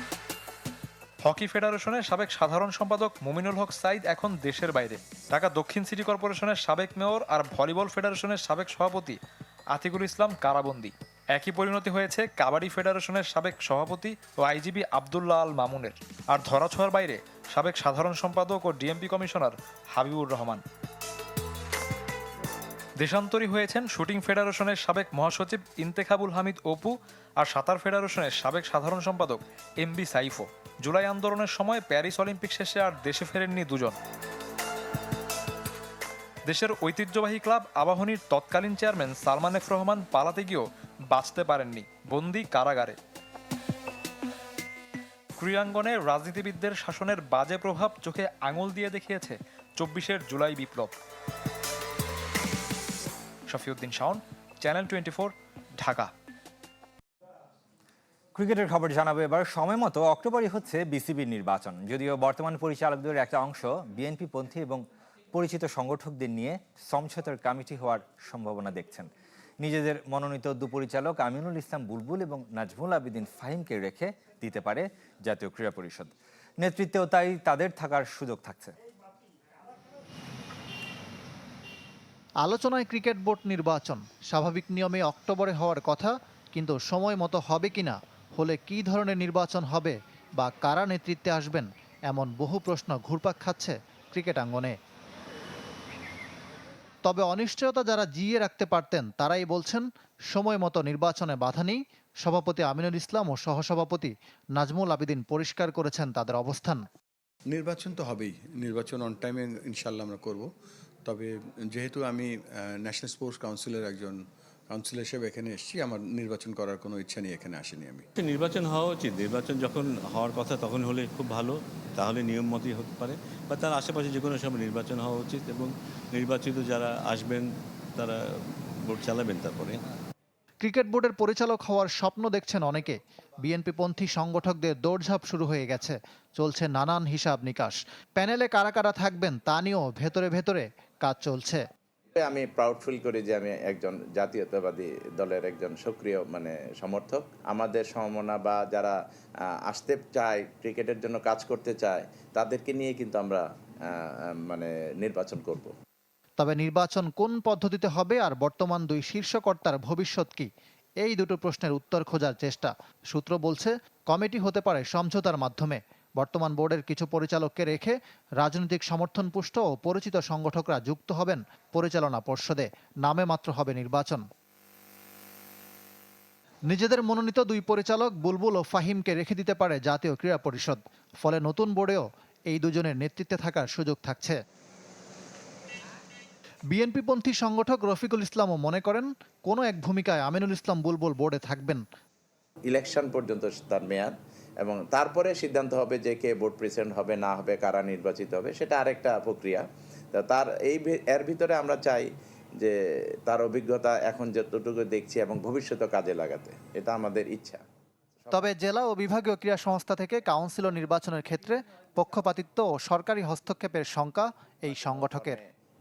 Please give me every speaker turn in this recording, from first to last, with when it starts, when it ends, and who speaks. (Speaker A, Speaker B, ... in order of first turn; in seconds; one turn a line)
Speaker A: 1.2-9.2
Speaker A: 9.7-20.6
Speaker A: 23.0-34.0
Speaker A: 36.5-43.0
Speaker A: 45.4-50.9
Speaker A: 53.5-56.1
Speaker B: 58.4-69.1
Speaker B: 69.6-76.1
Speaker B: 76.6-78.7
Speaker C: 82.4-94.7
Speaker C: 97.0-106.8
Speaker D: 107.5-110.5
Speaker D: 111.0-118.0
Speaker E: 118.2-129.8
Speaker C: 130.6-141.6
Speaker F: 142.2-148.9
Speaker F: 149.7-153.4
Speaker F: 154.0-155.7
Speaker C: 156.4-160.5
Speaker C: 161.0-174.2
Speaker C: 176.7-184.4
Speaker C: 186.7-191.8
Speaker F: 192.7-194.1
Speaker F: 194.6-202.1
Speaker F: 203.3-207.6
Speaker C: 208.3-215.4
Speaker F: 214.9-215.4